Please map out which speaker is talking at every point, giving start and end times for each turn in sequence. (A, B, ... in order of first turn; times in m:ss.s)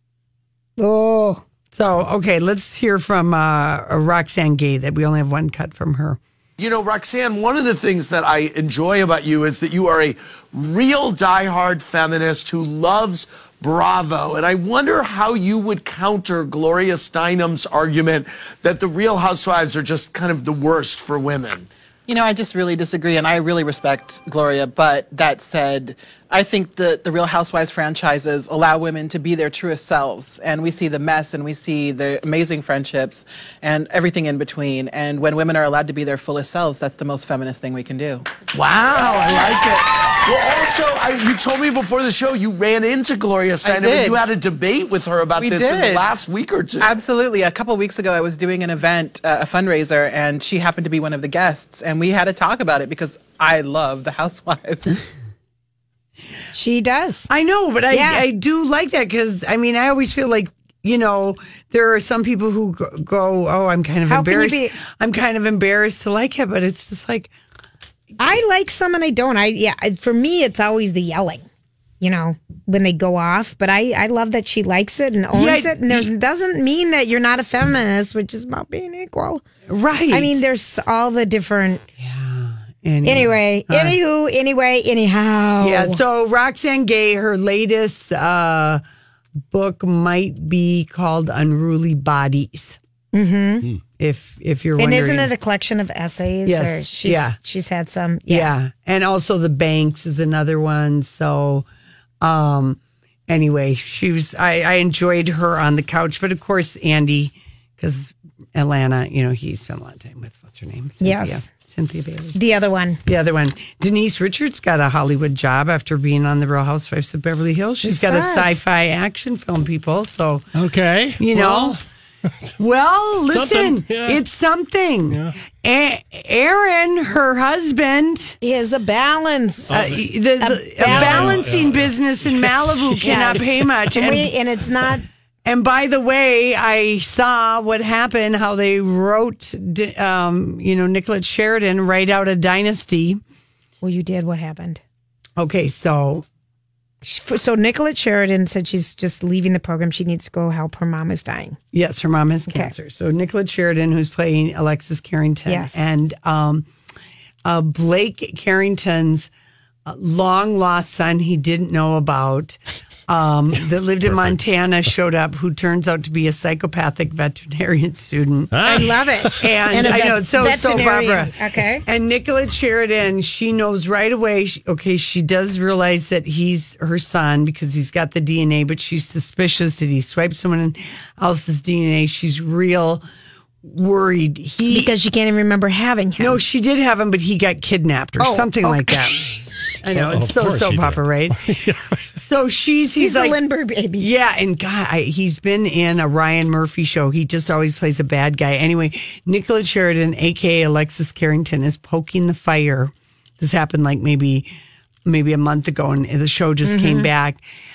0:00.8-0:01.4 A
0:01.7-0:06.2 B
0:06.6-0:21.7 C
0:22.1-0:38.3 D
0:38.5-0:47.0 C
0:43.6-0:44.2 D
0:45.4-0:46.1 D
0:46.8-0:54.9 D
0:56.5-0:57.3 A
0:57.3-1:07.3 B
0:57.9-0:58.3 A
1:04.1-1:04.8 A
1:08.2-1:11.5 A
1:12.0-1:19.5 A
1:15.3-1:16.1 B
1:19.7-1:20.4 B
1:20.1-1:21.8 A
1:22.0-1:24.0 B
1:23.0-1:26.0 A
1:25.6-1:28.8 B
1:29.5-1:32.8 B
1:33.1-1:33.7 A
1:34.0-1:35.3 B
1:34.8-1:38.5 A
1:36.5-1:37.4 B
1:38.3-1:41.6 B
1:42.2-1:52.4 B
1:51.0-1:51.4 A
1:52.3-1:53.0 A
1:53.1-2:00.5 B
1:57.8-1:58.6 A
2:00.6-2:01.8 E
2:01.2-2:01.8 B
2:02.6-2:08.4 B
2:03.3-2:04.2 E
2:05.1-2:05.4 E
2:08.4-2:11.7 A
2:09.7-2:10.0 E
2:09.7-2:14.3 B
2:10.8-2:13.3 E
2:13.0-2:15.1 A
2:15.4-2:23.2 B
2:23.8-2:24.8 A
2:25.4-2:26.2 B
2:27.0-2:31.6 A
2:31.7-2:36.7 B
2:35.5-2:35.8 A
2:37.4-2:39.3 B
2:39.9-2:42.6 B
2:43.1-2:48.9 B
2:44.1-2:44.4 E
2:48.5-2:49.7 E
2:48.6-2:51.9 A
2:49.4-3:03.0 B
3:03.6-3:04.9 B
3:04.7-3:06.4 A
3:06.2-3:09.2 B
3:08.2-3:09.1 A
3:09.8-3:11.4 B
3:09.9-3:12.0 E
3:12.2-3:13.4 B
3:13.0-3:14.1 A
3:14.0-3:24.5 B
3:25.1-3:27.4 B
3:26.6-3:27.1 A